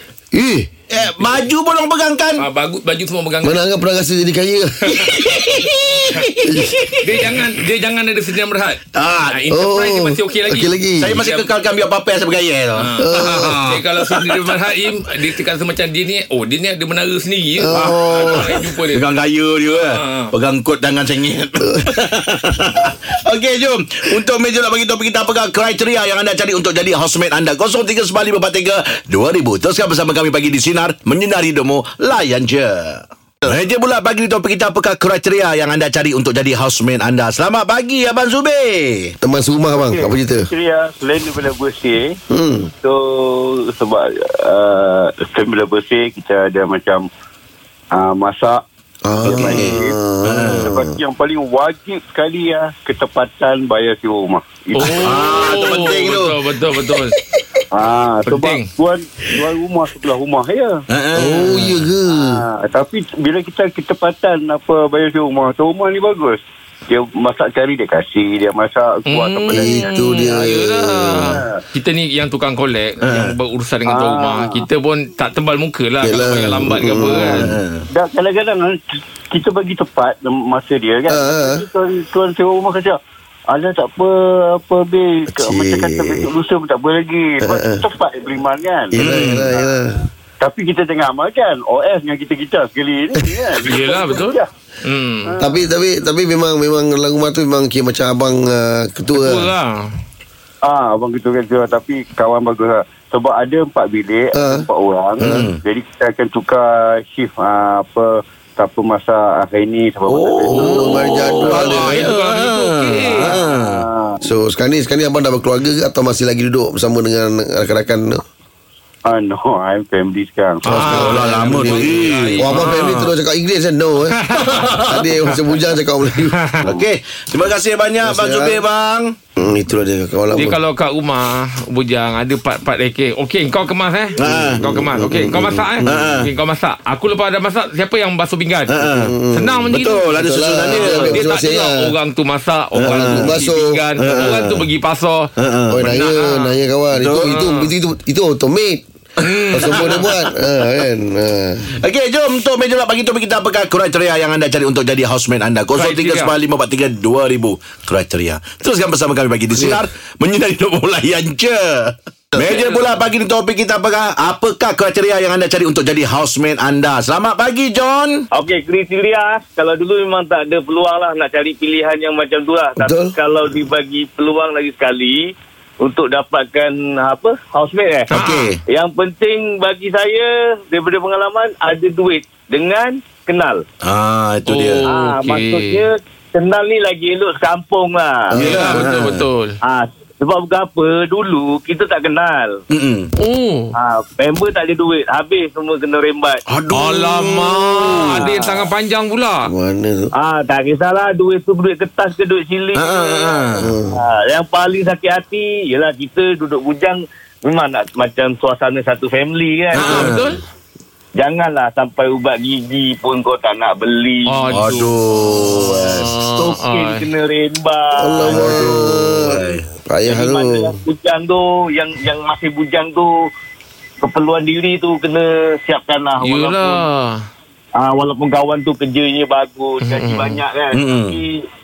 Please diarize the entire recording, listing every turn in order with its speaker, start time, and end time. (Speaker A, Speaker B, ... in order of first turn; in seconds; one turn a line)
Speaker A: 0.3-0.7
Speaker B: 0.9-2.4
Speaker C: 2.4-3.6
Speaker A: 3.4-4.7
Speaker B: 4.9-7.0
Speaker A: 6.4-6.8
Speaker C: 7.0-11.5
Speaker B: 8.9-9.4
Speaker A: 9.5-11.2
Speaker B: 11.0-14.4
Speaker C: 12.8-19.1
Speaker A: 13.0-13.6
Speaker A: 17.6-18.4
Speaker B: 17.7-39.1
Speaker C: 19.7-20.3
Speaker A: 21.6-21.9
Speaker A: 39.2-40.5
Speaker D: 39.8-42.2
Speaker A: 42.3-42.7
Speaker D: 42.8-47.1
Speaker D: 47.9-48.6
Speaker A: 49.0-50.9
Speaker D: 49.2-55.7
Speaker B: 49.3-50.7
Speaker C: 54.8-57.1
Speaker B: 55.0-56.4
Speaker D: 57.7-60.8
Speaker C: 58.2-58.7
Speaker B: 60.9-61.9
Speaker A: 61.1-62.4
Speaker D: 62.1-70.4
Speaker C: 69.1-77.5
Speaker A: 69.5-71.4
Speaker D: 71.1-71.5
Speaker B: 73.0-73.4
Speaker D: 73.8-74.6
Speaker A: 76.0-77.5
Speaker B: 77.0-77.9
Speaker D: 77.9-78.8
Speaker D: 79.3-83.0
Speaker A: 81.1-81.6
Speaker D: 83.5-89.7
Speaker A: 85.3-86.3
Speaker A: 87.4-87.8
Speaker A: 88.9-90.0
Speaker B: 88.9-89.5
Speaker D: 90.4-94.5
Speaker C: 93.7-95.3
Speaker D: 95.2-95.7
Speaker A: 95.4-99.5
Speaker C: 99.1-99.9
Speaker D: 100.6-111.3
Speaker A: 104.3-104.7
Speaker A: 105.2-105.5
Speaker B: 105.2-105.6
Speaker B: 110.0-113.8
Speaker A: 110.5-112.0
Speaker C: 111.5-113.3
Speaker D: 113.1-114.1
Speaker A: 114.2-118.2
Speaker D: 119.0-121.9
Speaker A: 120.7-121.7
Speaker C: 120.7-122.9
Speaker B: 120.8-123.1
Speaker A: 122.4-124.2
Speaker C: 124.1-124.8
Speaker B: 124.3-125.0
Speaker A: 124.9-126.8
Speaker B: 126.7-129.2
Speaker A: 128.0-128.6
Speaker A: 129.4-130.6
Speaker C: 130.3-138.8
Speaker B: 134.2-134.6
Speaker A: 134.2-136.1
Speaker B: 135.8-136.3
Speaker B: 138.7-139.1
Speaker A: 138.9-141.9
Speaker C: 139.3-146.6
Speaker B: 139.7-141.2
Speaker B: 142.8-143.4
Speaker A: 142.8-144.4
Speaker B: 144.0-144.7
Speaker B: 145.4-145.9
Speaker A: 145.7-148.8
Speaker B: 146.9-147.4
Speaker C: 147.2-147.7
Speaker B: 149.2-150.2
Speaker C: 149.2-150.0
Speaker A: 149.5-151.7
Speaker B: 151.8-168.2
Speaker C: 155.7-156.3
Speaker C: 162.4-162.9
Speaker E: 168.3-178.1
Speaker A: 172.8-173.2
Speaker C: 178.1-178.5
Speaker B: 178.1-178.6
Speaker E: 178.7-183.6
Speaker B: 183.8-185.0
Speaker C: 184.4-185.9
Speaker E: 184.9-188.3
Speaker A: 188.3-188.8
Speaker B: 188.4-189.2
Speaker C: 188.4-189.5
Speaker E: 189.7-192.5
Speaker B: 192.7-193.1
Speaker C: 193.2-193.7
Speaker E: 193.8-196.4
Speaker B: 196.5-198.2
Speaker C: 196.7-199.5
Speaker A: 199.4-200.1
Speaker E: 200.2-203.4
Speaker B: 202.7-203.7
Speaker A: 203.6-204.0
Speaker E: 204.0-210.0
Speaker C: 209.7-210.4
Speaker B: 209.7-210.3
Speaker E: 211.2-214.2
Speaker C: 214.2-217.1
Speaker B: 214.5-216.1
Speaker A: 215.5-216.1
Speaker E: 216.3-218.6
Speaker A: 218.0-220.8
Speaker B: 218.5-219.7
Speaker E: 220.1-223.1
Speaker E: 224.0-226.8
Speaker C: 226.2-227.2
Speaker E: 227.8-231.4
Speaker C: 229.8-230.4
Speaker B: 230.7-231.2